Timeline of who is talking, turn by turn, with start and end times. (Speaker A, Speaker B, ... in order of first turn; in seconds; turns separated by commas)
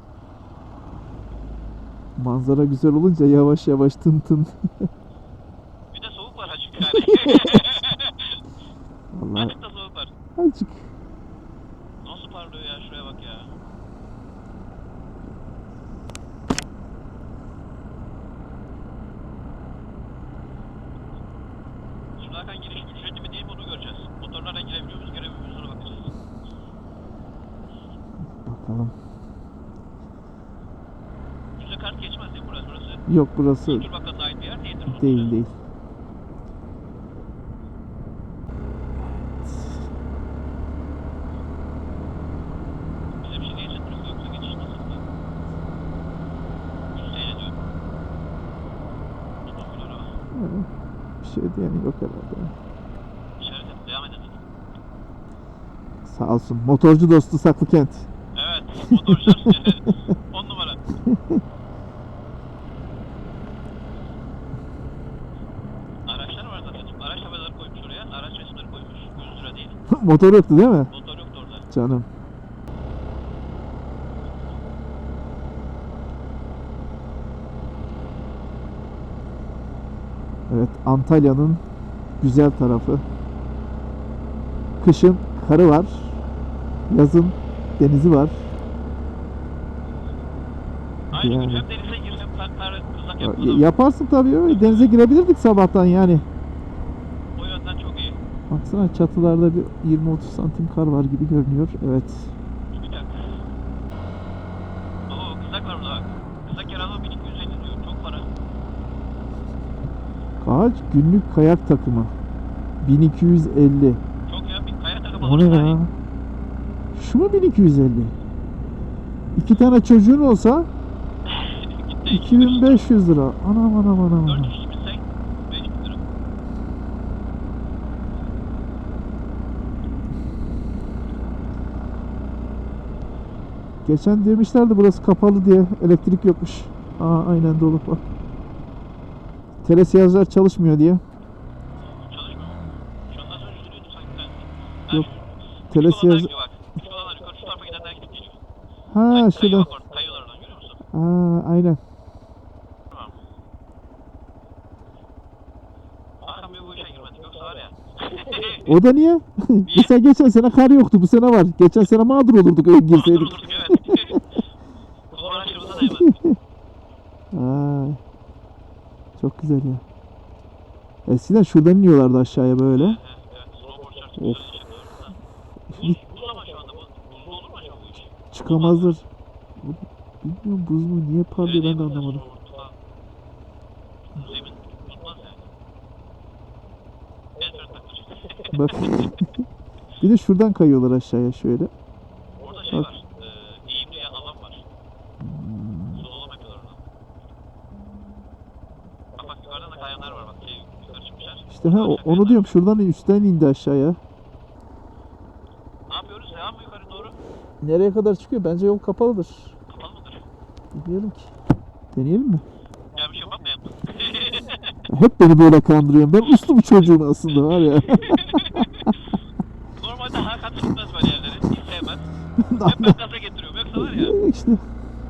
Speaker A: 2.1-4.9, Speaker B: 5.9-8.4, Speaker A: 9.1-9.5, Speaker B: 9.3-10.1, Speaker A: 10.4-10.8, Speaker B: 12.0-13.5, Speaker B: 22.2-26.1, Speaker A: 28.4-28.9, Speaker B: 31.6-33.0, Speaker A: 33.1-33.9, Speaker B: 33.6-35.4, Speaker A: 34.9-35.5, Speaker A: 39.4-39.7, Speaker B: 43.2-45.0, Speaker B: 46.9-47.5, Speaker B: 49.4-50.1, Speaker A: 50.3-50.7, Speaker A: 51.2-52.5, Speaker B: 53.4-54.4, Speaker A: 56.0-58.1, Speaker B: 58.3-60.8, Speaker A: 58.9-59.8, Speaker A: 61.0-61.4, Speaker B: 66.0-69.8, Speaker A: 69.9-70.9, Speaker B: 70.9-71.7, Speaker A: 71.7-72.1, Speaker A: 80.5-81.6, Speaker A: 82.2-83.0, Speaker A: 84.8-86.1, Speaker A: 86.9-88.4, Speaker B: 91.1-93.7, Speaker A: 91.1-91.6, Speaker A: 93.2-96.2, Speaker B: 94.5-94.9, Speaker B: 97.3-98.2, Speaker A: 98.5-102.3, Speaker B: 102.7-103.3, Speaker B: 105.1-108.3, Speaker A: 110.4-112.1, Speaker A: 112.8-114.0, Speaker B: 114.3-115.8, Speaker A: 115.2-115.9, Speaker A: 116.9-118.1, Speaker A: 119.3-120.7, Speaker B: 121.2-122.9, Speaker A: 122.1-124.5, Speaker B: 124.2-126.0, Speaker A: 133.8-138.0, Speaker A: 139.6-141.0, Speaker B: 142.1-148.4, Speaker A: 145.7-146.3, Speaker A: 148.9-149.7, Speaker B: 149.1-150.8, Speaker A: 150.9-151.8, Speaker B: 152.9-153.2, Speaker B: 156.2-158.7, Speaker A: 158.6-164.2, Speaker B: 159.7-159.9, Speaker B: 162.9-164.2, Speaker B: 165.1-166.2, Speaker A: 165.7-166.4, Speaker A: 167.3-168.0, Speaker A: 169.2-169.8, Speaker A: 171.1-173.0, Speaker B: 172.7-175.2, Speaker A: 174.2-174.5, Speaker A: 175.7-176.0, Speaker B: 175.7-178.9, Speaker A: 178.3-179.0, Speaker A: 179.6-182.2, Speaker B: 181.4-182.7, Speaker B: 184.1-185.4, Speaker B: 187.4-189.1, Speaker A: 188.5-189.3, Speaker A: 190.0-191.7, Speaker B: 192.3-194.6, Speaker A: 195.2-196.0, Speaker B: 195.9-196.8, Speaker B: 199.1-202.6, Speaker A: 201.5-204.0, Speaker B: 205.9-207.2, Speaker A: 207.6-209.5, Speaker B: 209.7-210.2, Speaker A: 210.7-211.3, Speaker A: 211.9-212.4, Speaker B: 212.9-214.7, Speaker A: 214.9-218.9, Speaker B: 218.0-218.9, Speaker B: 219.8-222.0, Speaker A: 222.4-223.0, Speaker B: 222.6-224.2, Speaker A: 223.7-224.6